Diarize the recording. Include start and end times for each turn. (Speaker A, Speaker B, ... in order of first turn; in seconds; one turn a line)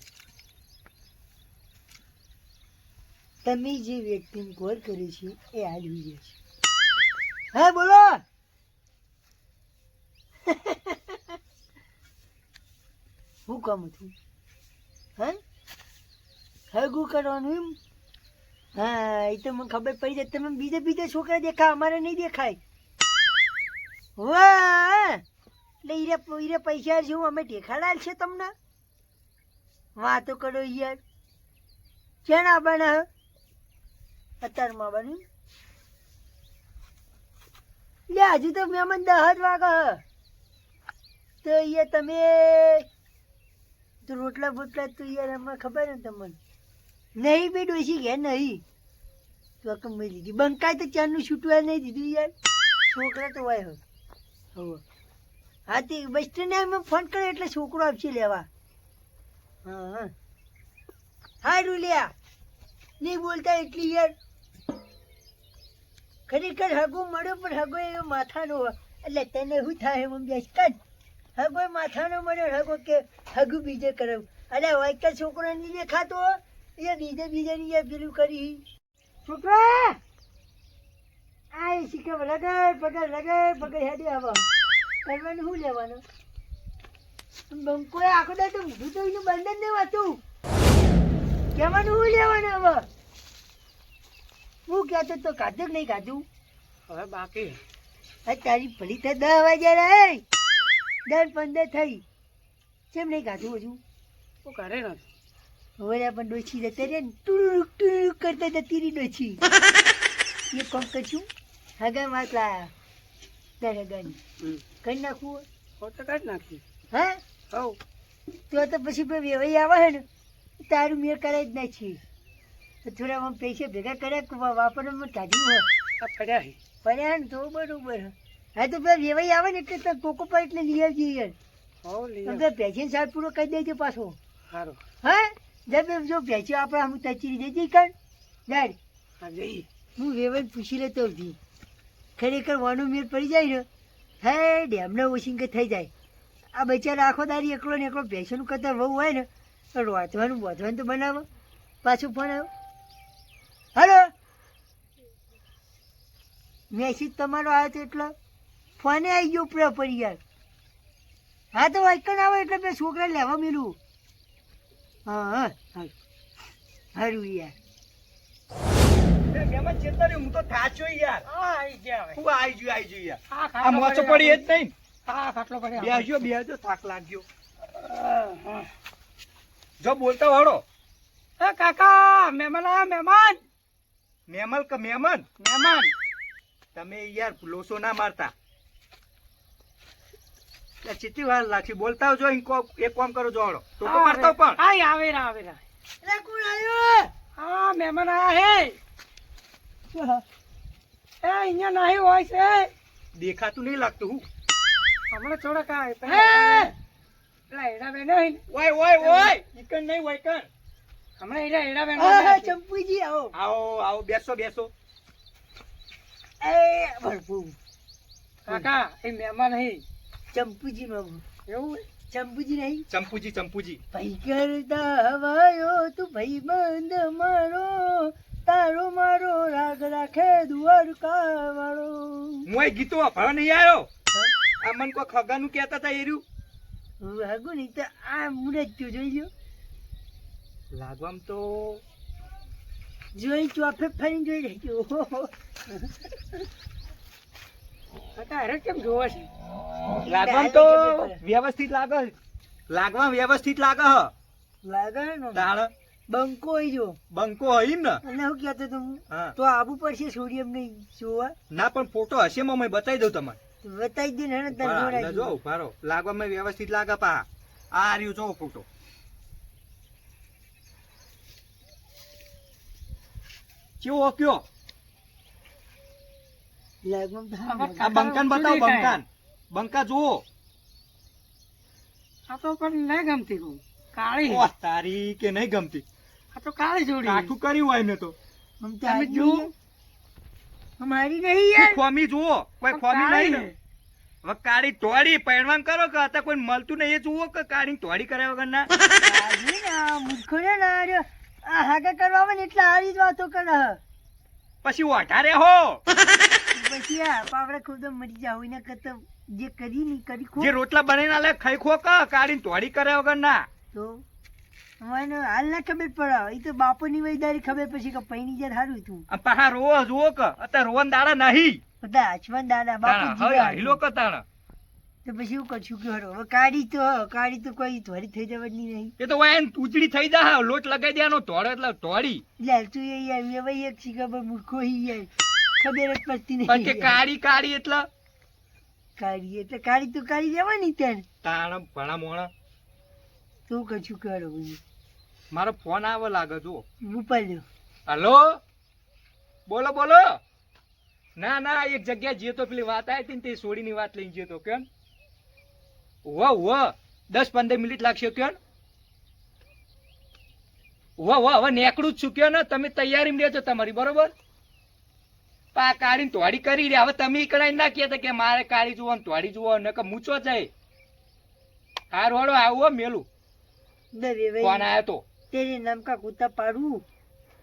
Speaker A: 3.4-6.4
Speaker A: 7.5-8.2
Speaker A: 10.5-11.3
Speaker A: 13.5-14.1
Speaker A: 16.7-17.8
Speaker A: 18.8-22.6
Speaker A: 24.2-25.2
Speaker A: 25.8-28.5
Speaker A: 29.9-31.0
Speaker A: 32.2-33.0
Speaker A: 34.4-35.2
Speaker A: 38.1-40.0
Speaker A: 41.4-42.9
Speaker A: 44.0-46.4
Speaker A: 47.2-48.6
Speaker A: 49.6-52.3
Speaker A: 52.9-53.8
Speaker A: 54.5-54.8
Speaker A: 55.7-58.5
Speaker A: 59.6-60.1
Speaker A: 61.4-62.1
Speaker A: 63.0-64.1
Speaker A: 66.3-70.8
Speaker A: 71.3-78.6
Speaker A: 79.2-80.0
Speaker A: 81.5-84.5
Speaker A: 85.0-86.0
Speaker A: 87.5-90.2
Speaker A: 91.5-92.8
Speaker A: 94.7-96.2
Speaker B: 96.9-97.6
Speaker A: 98.2-100.2
Speaker A: 101.1-102.0
Speaker A: 102.9-103.8
Speaker B: 104.4-105.0
Speaker A: 105.8-109.4
Speaker A: 110.5-111.3
Speaker A: 111.8-112.7
Speaker A: 113.6-114.2
Speaker A: 114.8-115.4
Speaker B: 115.8-116.6
Speaker A: 116.9-117.2
Speaker B: 117.5-117.8
Speaker A: 118.5-120.0
Speaker A: 120.6-122.0
Speaker A: 122.8-125.7
Speaker B: 126.0-126.6
Speaker A: 126.8-131.3
Speaker B: 131.8-132.4
Speaker A: 132.2-134.2
Speaker B: 134.5-134.8
Speaker A: 135.0-137.9
Speaker A: 138.5-138.8
Speaker B: 139.2-139.7
Speaker A: 140.0-141.4
Speaker A: 142.2-143.6
Speaker A: 144.2-145.9
Speaker A: 146.5-151.2
Speaker A: 151.8-152.5
Speaker A: 153.7-154.1
Speaker A: 156.7-158.1
Speaker A: 158.8-160.2
Speaker A: 161.5-163.8
Speaker A: 165.1-165.9
Speaker A: 166.9-167.5
Speaker C: 169.3-171.3
Speaker B: 171.3-172.2
Speaker C: 172.1-174.7
Speaker B: 173.3-174.5
Speaker B: 175.1-176.1
Speaker C: 175.8-177.2
Speaker B: 177.7-178.7
Speaker C: 179.8-180.6
Speaker B: 181.4-183.4
Speaker C: 184.3-185.3
Speaker B: 185.4-185.9
Speaker C: 186.7-188.3
Speaker C: 190.8-194.6
Speaker B: 193.8-195.6
Speaker A: 196.0-197.1
Speaker B: 197.4-198.8
Speaker A: 199.9-200.2
Speaker B: 201.2-202.7
Speaker C: 203.1-204.2
Speaker B: 205.1-206.7
Speaker A: 206.1-206.7
Speaker B: 207.5-208.4
Speaker C: 208.5-210.5
Speaker B: 209.0-209.3
Speaker B: 211.2-212.5
Speaker A: 211.9-213.3
Speaker C: 213.3-214.7
Speaker A: 216.4-217.6
Speaker B: 218.4-219.8
Speaker A: 220.3-221.2
Speaker B: 221.5-221.9
Speaker A: 222.1-222.8
Speaker C: 222.9-223.8
Speaker A: 223.9-232.5
Speaker C: 232.5-233.9
Speaker C: 234.6-236.2
Speaker A: 237.0-239.3
Speaker C: 240.7-241.8
Speaker A: 243.1-245.3
Speaker B: 248.1-249.3
Speaker A: 250.1-251.2
Speaker C: 250.1-252.1
Speaker C: 252.7-254.1
Speaker A: 254.6-255.5
Speaker C: 255.3-255.7
Speaker A: 256.1-257.0
Speaker C: 257.1-258.0
Speaker A: 258.0-261.3
Speaker C: 259.1-259.3
Speaker C: 261.5-263.4
Speaker A: 263.6-265.4
Speaker C: 264.5-268.6
Speaker C: 273.8-274.4
Speaker A: 276.8-278.0
Speaker B: 277.5-279.0
Speaker C: 277.8-280.2
Speaker B: 282.3-284.5
Speaker C: 284.2-285.8
Speaker B: 286.3-287.3
Speaker C: 287.0-288.1
Speaker A: 288.6-289.5
Speaker B: 288.9-289.5
Speaker A: 290.8-291.8
Speaker C: 291.6-293.5
Speaker B: 292.7-293.5
Speaker C: 294.2-298.7
Speaker A: 299.0-303.8
Speaker C: 304.6-305.8
Speaker A: 306.5-310.5
Speaker C: 310.4-313.5
Speaker A: 313.7-314.0
Speaker A: 314.8-319.1
Speaker C: 319.1-321.6
Speaker A: 321.8-323.8
Speaker C: 322.8-324.2
Speaker A: 325.0-328.9
Speaker C: 329.0-332.2
Speaker A: 332.4-337.0
Speaker C: 336.5-337.9
Speaker A: 339.0-341.0
Speaker C: 341.2-342.3
Speaker A: 343.5-344.6
Speaker C: 345.3-346.6
Speaker A: 346.8-347.4
Speaker C: 347.9-348.4
Speaker C: 349.5-350.2
Speaker C: 351.2-354.6
Speaker C: 356.0-358.4
Speaker C: 361.0-364.1
Speaker C: 365.5-370.5
Speaker C: 371.9-373.1
Speaker A: 373.9-374.7
Speaker C: 374.4-375.1
Speaker A: 375.3-376.8